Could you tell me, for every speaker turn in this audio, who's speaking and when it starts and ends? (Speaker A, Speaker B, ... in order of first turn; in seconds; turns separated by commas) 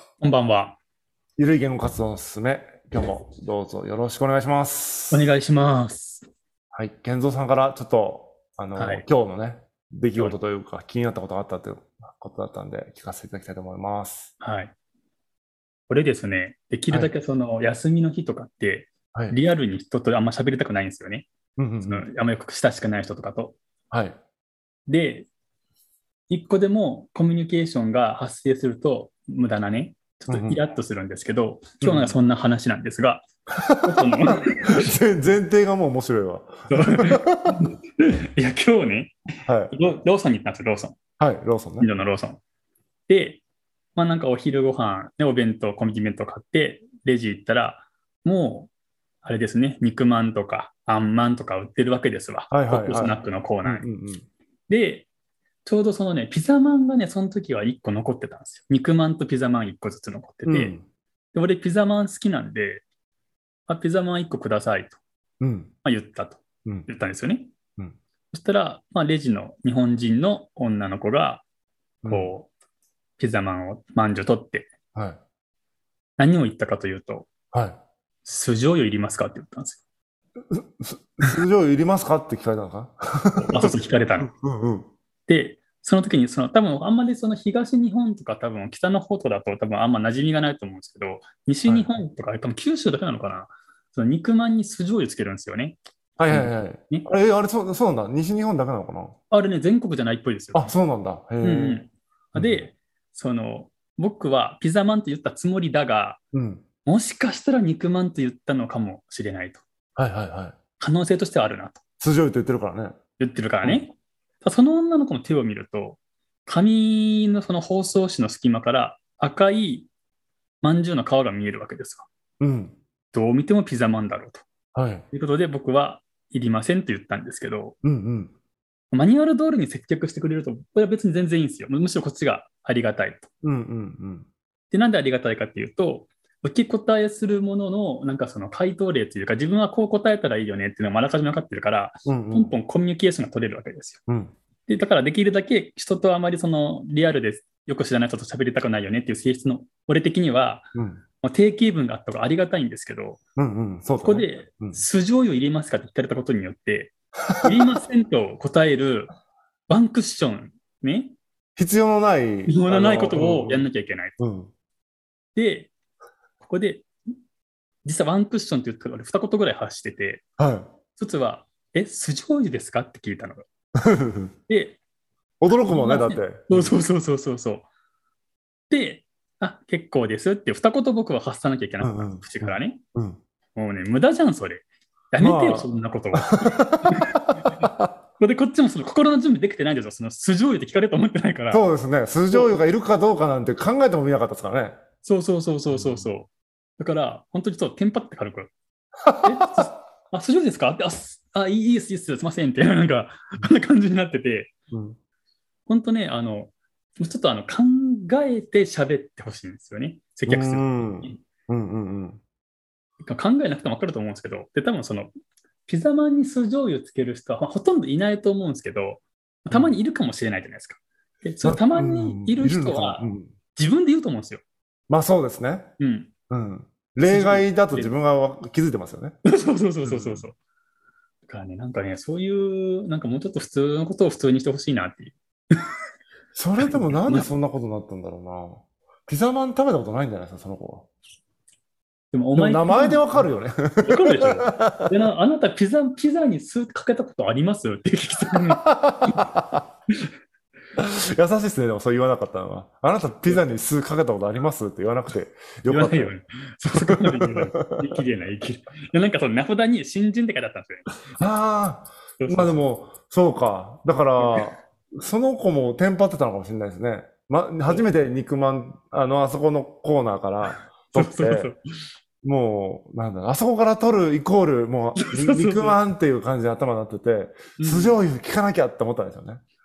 Speaker A: 0.2-0.8, Speaker B: 1.4-5.3, Speaker A: 5.1-6.2, Speaker B: 6.7-14.3, Speaker A: 8.8-9.0, Speaker A: 14.4-14.7, Speaker A: 15.9-21.3, Speaker B: 19.1-19.4, Speaker B: 21.6-22.1, Speaker A: 21.8-23.6, Speaker B: 23.9-24.2, Speaker A: 24.9-25.3, Speaker A: 26.3-33.3, Speaker B: 30.3-30.6, Speaker B: 31.8-32.2, Speaker B: 33.7-37.5, Speaker A: 33.8-34.9, Speaker A: 36.7-39.1, Speaker B: 39.5-39.7, Speaker A: 39.7-41.0, Speaker B: 41.2-41.9, Speaker A: 41.8-42.4, Speaker A: 43.1-43.4, Speaker A: 43.9-48.7, Speaker A: 49.2-53.9, Speaker B: 52.5-54.3, Speaker A: 54.7-55.1, Speaker A: 55.6-60.7, Speaker B: 60.5-60.8, Speaker A: 61.3-62.8, Speaker A: 63.7-65.0, Speaker B: 65.4-65.7, Speaker A: 65.8-67.5, Speaker A: 68.3-71.4, Speaker B: 72.0-72.3, Speaker A: 72.0-72.5, Speaker A: 73.2-74.7, Speaker B: 74.9-75.2, Speaker A: 76.2-77.3, Speaker B: 77.5-77.8, Speaker A: 78.2-79.8, Speaker B: 80.5-84.9, Speaker A: 83.3-84.3, Speaker A: 85.3-97.1, Speaker B: 91.7-91.9, Speaker B: 96.2-99.2, Speaker A: 99.3-100.7, Speaker B: 100.5-102.7, Speaker A: 101.4-106.2, Speaker B: 106.3-106.6, Speaker A: 106.8-109.6, Speaker B: 110.0-110.5, Speaker A: 110.8-111.8, Speaker B: 112.0-112.9, Speaker A: 113.2-119.9, Speaker A: 120.6-122.1, Speaker B: 122.4-122.8, Speaker A: 123.1-124.4, Speaker B: 124.7-125.0, Speaker A: 125.1-127.7, Speaker B: 127.8-128.3, Speaker A: 128.9-133.3, Speaker B: 133.4-134.3, Speaker A: 134.7-144.0, Speaker B: 142.1-142.5, Speaker B: 144.1-144.3, Speaker A: 144.7-150.7, Speaker B: 150.7-151.0, Speaker A: 151.2-153.2, Speaker B: 153.4-154.8, Speaker A: 154.0-156.9, Speaker B: 157.3-157.8, Speaker A: 157.4-159.1, Speaker A: 159.7-161.2, Speaker B: 161.6-163.7, Speaker A: 162.5-164.2, Speaker B: 164.2-164.5, Speaker A: 165.3-165.7, Speaker A: 166.4-166.9, Speaker A: 167.8-170.2, Speaker B: 170.4-170.7, Speaker A: 171.0-173.4, Speaker B: 173.8-174.3, Speaker A: 174.5-174.8, Speaker B: 175.4-176.8, Speaker A: 175.7-177.7, Speaker A: 178.7-182.8, Speaker B: 181.8-183.2, Speaker A: 183.6-187.1, Speaker B: 185.2-187.9, Speaker A: 188.2-191.6, Speaker B: 191.5-194.8, Speaker A: 195.0-198.5, Speaker B: 195.7-196.1, Speaker B: 199.0-199.7, Speaker A: 199.2-204.5, Speaker B: 204.7-205.0, Speaker A: 205.7-211.2, Speaker B: 210.3-212.2, Speaker A: 213.0-215.1, Speaker A: 215.7-224.4, Speaker B: 219.5-219.8, Speaker B: 221.4-223.3, Speaker B: 224.9-225.7, Speaker A: 225.8-226.1, Speaker B: 226.3-229.2, Speaker A: 227.1-227.9, Speaker A: 229.3-230.3, Speaker B: 229.8-230.3, Speaker A: 231.2-235.2, Speaker B: 236.3-240.9, Speaker A: 236.6-237.3, Speaker A: 242.1-243.2, Speaker B: 242.3-244.9, Speaker A: 243.8-249.3, Speaker B: 248.6-249.6, Speaker B: 250.8-256.1, Speaker A: 255.7-260.9, Speaker B: 256.7-257.9, Speaker B: 261.1-271.5, Speaker A: 262.2-262.7, Speaker A: 264.2-264.5, Speaker A: 270.5-271.6, Speaker B: 272.2-279.4, Speaker A: 275.0-275.8, Speaker A: 277.6-278.0